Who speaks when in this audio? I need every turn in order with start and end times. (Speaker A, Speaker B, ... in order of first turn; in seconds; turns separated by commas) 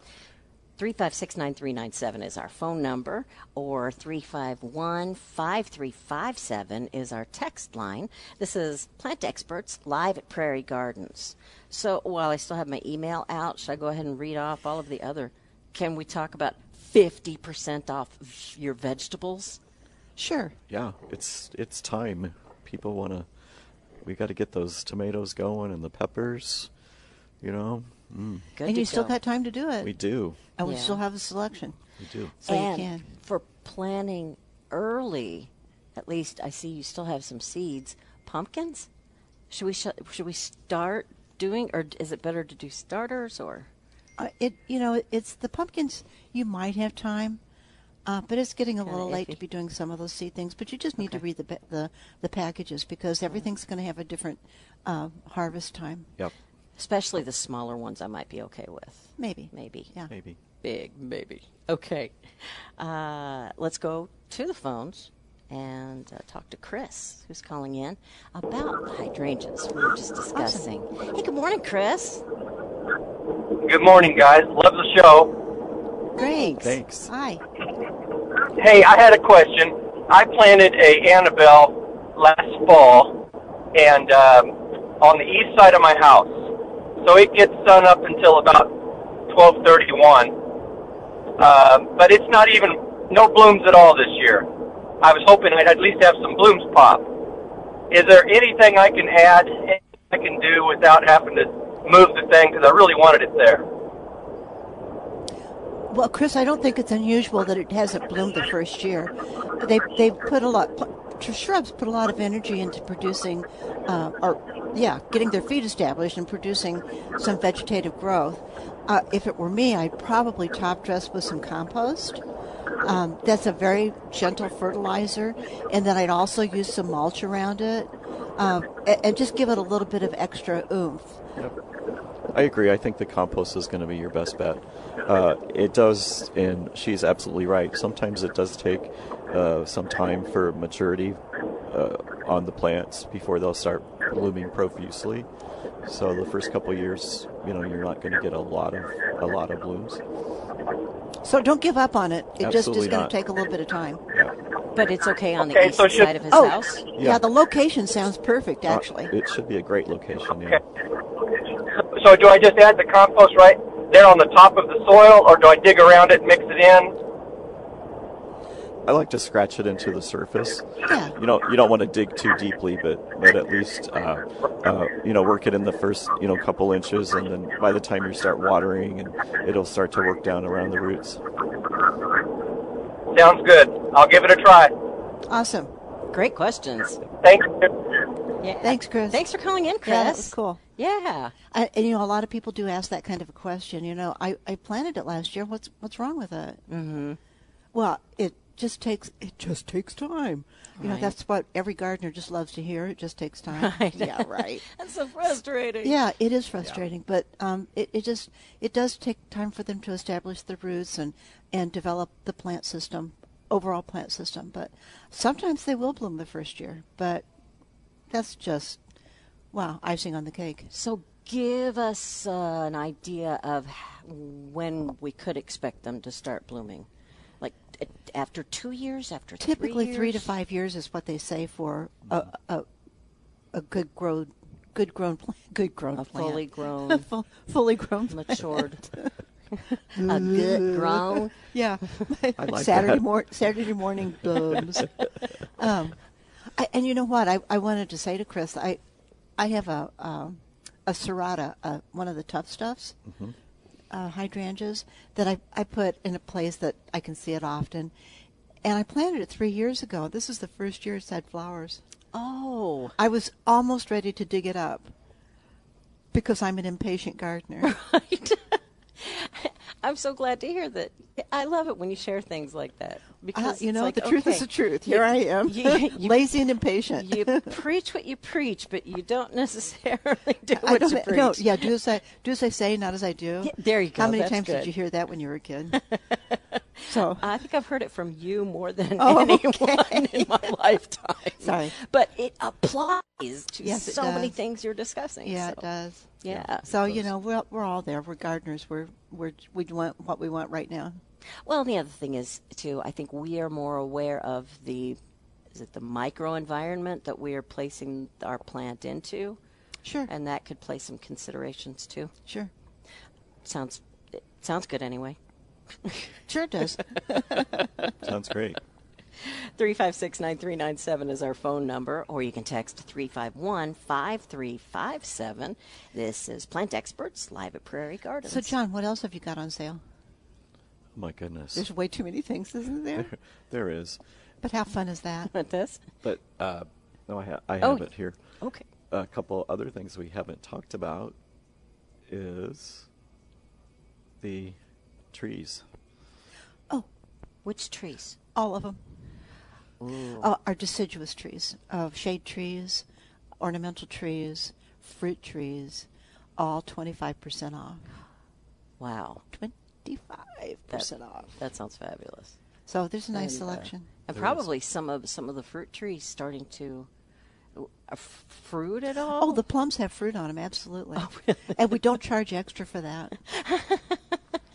Speaker A: 0.8-19.6, Speaker B: 20.2-20.6, Speaker C: 20.7-23.3, Speaker C: 24.0-26.7, Speaker C: 27.4-28.5, Speaker A: 28.6-29.2, Speaker B: 28.6-29.9, Speaker C: 29.8-30.4, Speaker B: 30.6-31.8, Speaker A: 30.6-31.0, Speaker C: 32.0-32.4, Speaker A: 32.4-38.9, Speaker B: 32.5-33.1, Speaker A: 39.5-43.7, Speaker B: 44.2-47.4, Speaker B: 48.1-56.1, Speaker A: 48.8-49.4, Speaker A: 56.8-59.9, Speaker B: 59.2-60.1, Speaker C: 60.1-60.4, Speaker A: 60.6-72.2, Speaker B: 70.3-70.7, Speaker D: 73.6-75.3, Speaker B: 76.2-77.4, Speaker C: 76.6-77.1, Speaker D: 78.6-83.2, Speaker D: 83.7-86.5, Speaker D: 87.0-88.7, Speaker D: 89.3-90.3, Speaker D: 91.4-94.5, Speaker D: 95.0-97.1, Speaker D: 97.9-103.7, Speaker B: 105.9-122.2, Speaker B: 122.8-131.2, Speaker C: 132.3-145.3, Speaker C: 145.8-150.0, Speaker B: 151.2-154.0, Speaker C: 152.4-153.1, Speaker A: 154.7-156.8, Speaker D: 155.4-156.2, Speaker B: 156.3-159.1, Speaker C: 157.0-157.2, Speaker C: 158.7-160.6, Speaker D: 161.9-166.9, Speaker C: 168.9-181.2, Speaker B: 170.9-171.2, Speaker D: 183.1-184.7, Speaker B: 185.3-185.7, Speaker A: 186.1-187.0, Speaker D: 187.2-187.7, Speaker A: 188.4-191.3, Speaker B: 188.6-189.2, Speaker B: 189.8-190.6, Speaker B: 191.5-196.6, Speaker A: 196.7-197.2, Speaker B: 197.7-204.6, Speaker A: 200.8-201.1, Speaker A: 203.5-206.0, Speaker B: 205.8-217.3, Speaker B: 218.1-218.8, Speaker B: 219.5-220.7, Speaker A: 220.7-226.9, Speaker A: 227.4-230.3, Speaker B: 229.4-232.7, Speaker B: 233.5-239.1, Speaker A: 235.9-237.1, Speaker A: 238.1-238.8, Speaker A: 239.6-241.3, Speaker B: 239.9-244.9, Speaker C: 242.4-243.1, Speaker B: 245.6-246.0, Speaker B: 246.5-248.8, Speaker B: 249.4-253.0, Speaker C: 253.1-253.3, Speaker B: 253.9-257.9, Speaker B: 258.6-261.8, Speaker A: 262.1-262.9, Speaker B: 263.0-264.9, Speaker B: 266.1-267.7, Speaker A: 267.6-276.3, Speaker B: 273.4-277.6, Speaker A: 276.9-281.7, Speaker B: 280.5-285.8, Speaker A: 283.4-284.7, Speaker A: 285.7-295.6, Speaker B: 286.9-287.3, Speaker B: 289.0-290.5, Speaker B: 291.4-291.8, Speaker B: 293.6-294.4, Speaker B: 295.2-301.0, Speaker A: 296.2-296.7, Speaker C: 296.3-297.1, Speaker A: 301.4-305.0, Speaker A: 305.5-309.4, Speaker B: 309.8-310.1, Speaker A: 310.1-312.1, Speaker B: 312.3-312.5, Speaker A: 313.4-315.2, Speaker A: 315.8-316.1, Speaker B: 316.3-317.4, Speaker C: 318.0-318.6, Speaker A: 319.2-328.5, Speaker B: 328.2-329.8, Speaker C: 330.9-331.7, Speaker B: 331.5-333.1, Speaker C: 332.9-334.0, Speaker B: 334.4-335.3, Speaker A: 335.3-335.9, Speaker C: 336.0-338.2, Speaker A: 337.6-338.6, Speaker C: 338.9-341.2, Speaker C: 342.1-342.9, Speaker C: 344.2-344.6, Speaker C: 345.1-345.6, Speaker A: 347.4-348.2, Speaker B: 348.4-348.8, Speaker A: 349.8-350.3, Speaker B: 350.1-352.9, Speaker B: 353.4-357.9, Speaker A: 358.8-359.2, Speaker B: 359.3-361.4, Speaker A: 360.7-362.4, Speaker B: 362.7-363.9, Speaker A: 363.1-366.9, Speaker C: 364.1-364.4, Speaker A: 367.6-369.4, Speaker B: 369.1-373.2, Speaker A: 371.0-371.8, Speaker A: 373.2-374.2